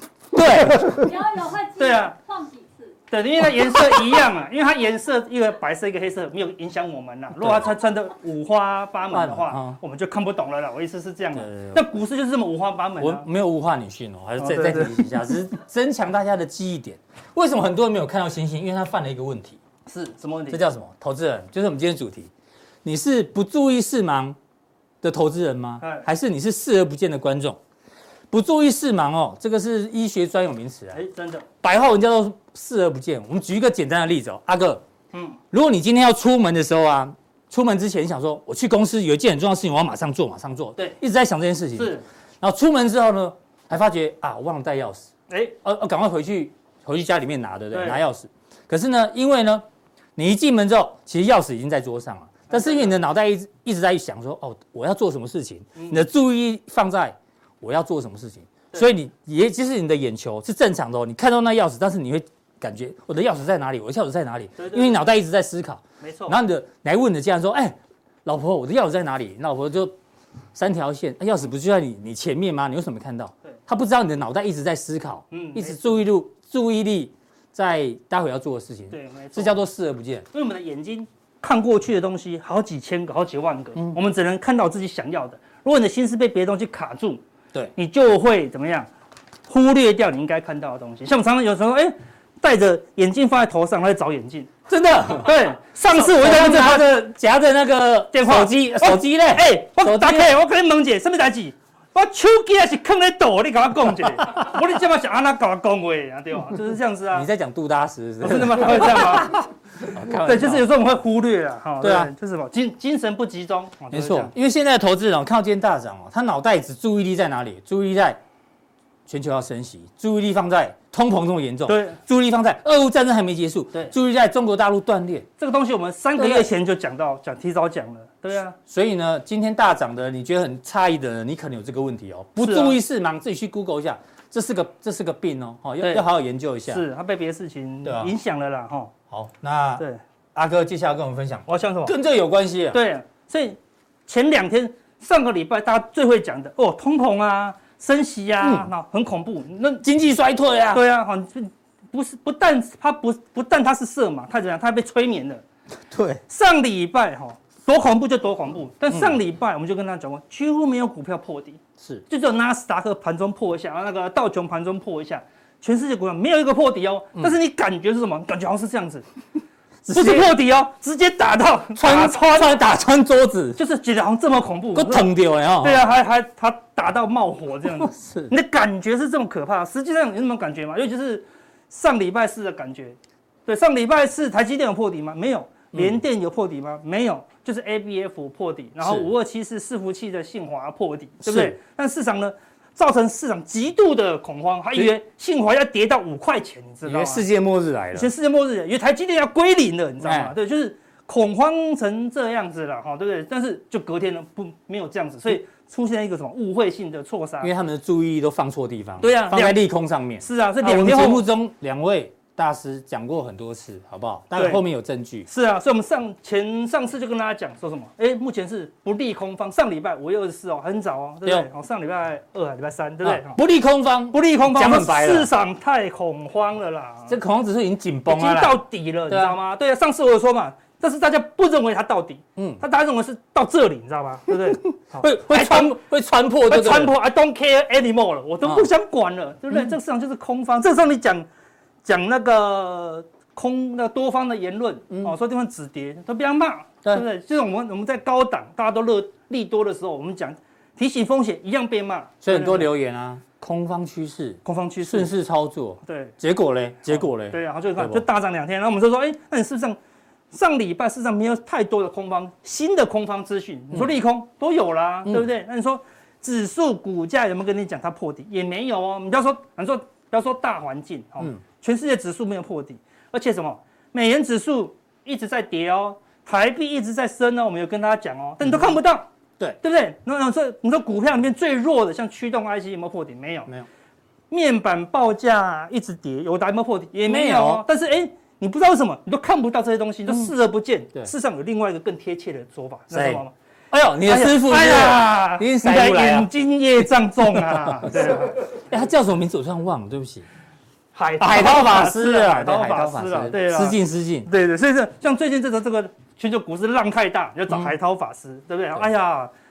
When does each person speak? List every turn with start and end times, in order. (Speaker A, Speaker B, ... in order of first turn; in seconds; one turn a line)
Speaker A: 0.3-1.1
Speaker B: 0.8-3.0
Speaker C: 1.8-2.1
Speaker C: 3.1-13.3
Speaker A: 7.4-7.7
Speaker A: 9.1-9.8
Speaker A: 11.3-11.8
Speaker A: 13.0-19.6
Speaker C: 14.4-15.3
Speaker C: 19.9-20.6
Speaker A: 20.5-22.3
Speaker A: 22.8-24.4
Speaker A: 25.0-27.6
Speaker C: 25.8-26.1
Speaker A: 28.3-31.0
Speaker C: 30.9-31.4
Speaker A: 31.6-34.8
Speaker C: 35.1-35.4
Speaker A: 35.5-45.1
Speaker C: 41.8-42.0
Speaker C: 45.3-45.5
Speaker A: 45.6-49.6
Speaker C: 47.7-48.0
Speaker A: 50.2-70.0
Speaker C: 52.5-52.9
Speaker C: 55.8-56.0
Speaker C: 64.6-65.0
Speaker C: 66.0-66.4
Speaker A: 70.5-80.3
Speaker C: 75.3-76.0
Speaker C: 78.9-79.6
Speaker C: 80.3-87.2
Speaker C: 87.8-88.9
Speaker C: 89.5-94.5
Speaker A: 94.7-100.3
Speaker C: 95.2-96.9
Speaker C: 98.1-107.3
Speaker A: 107.1-110.7
Speaker C: 108.2-109.4
Speaker C: 110.2-114.3
Speaker A: 111.8-112.1
Speaker A: 113.9-118.2
Speaker A: 119.1-125.3
Speaker C: 121.7-122.0
Speaker C: 125.4-128.6
Speaker A: 126.2-126.5
Speaker A: 128.7-136.8
Speaker C: 132.4-132.8
Speaker C: 135.8-136.1
Speaker C: 136.7-138.9
Speaker A: 137.8-138.1
Speaker A: 139.1-139.8
Speaker A: 140.3-142.8
Speaker C: 141.5-141.9
Speaker C: 142.7-149.8
Speaker A: 148.4-148.7
Speaker A: 149.8-150.8
Speaker C: 150.7-155.4
Speaker A: 155.9-156.2
Speaker C: 156.3-169.1
Speaker A: 158.9-159.2
Speaker A: 169.8-170.4
Speaker C: 169.9-172.6
Speaker A: 171.8-173.6
Speaker C: 173.6-175.1
Speaker A: 174.7-175.9
Speaker C: 175.6-197.2
Speaker A: 177.8-178.3
Speaker A: 185.7-186.0
Speaker A: 188.8-189.1
Speaker A: 191.2-191.6
Speaker A: 196.8-198.1
Speaker C: 197.9-207.5
Speaker A: 200.0-200.3
Speaker A: 207.4-215.3
Speaker C: 209.0-209.6
Speaker C: 210.2-211.3
Speaker C: 214.3-214.6
Speaker C: 215.3-223.4
Speaker A: 223.0-225.3
Speaker C: 224.1-227.2
Speaker A: 227.1-229.4
Speaker C: 228.1-235.8
Speaker A: 232.4-232.6
Speaker A: 234.3-236.9
Speaker C: 236.5-241.3
Speaker C: 241.8-252.7
Speaker A: 252.2-258.0
Speaker C: 254.4-255.1
Speaker C: 255.8-256.2
Speaker C: 256.9-259.8
Speaker C: 260.3-279.1
Speaker C: 279.6-283.5
Speaker C: 284.3-293.3
Speaker A: 287.1-287.6
Speaker A: 292.9-296.3
Speaker C: 294.1-298.5
Speaker A: 297.3-300.3
Speaker C: 300.9-309.3
Speaker A: 301.2-304.3
Speaker A: 307.5-307.7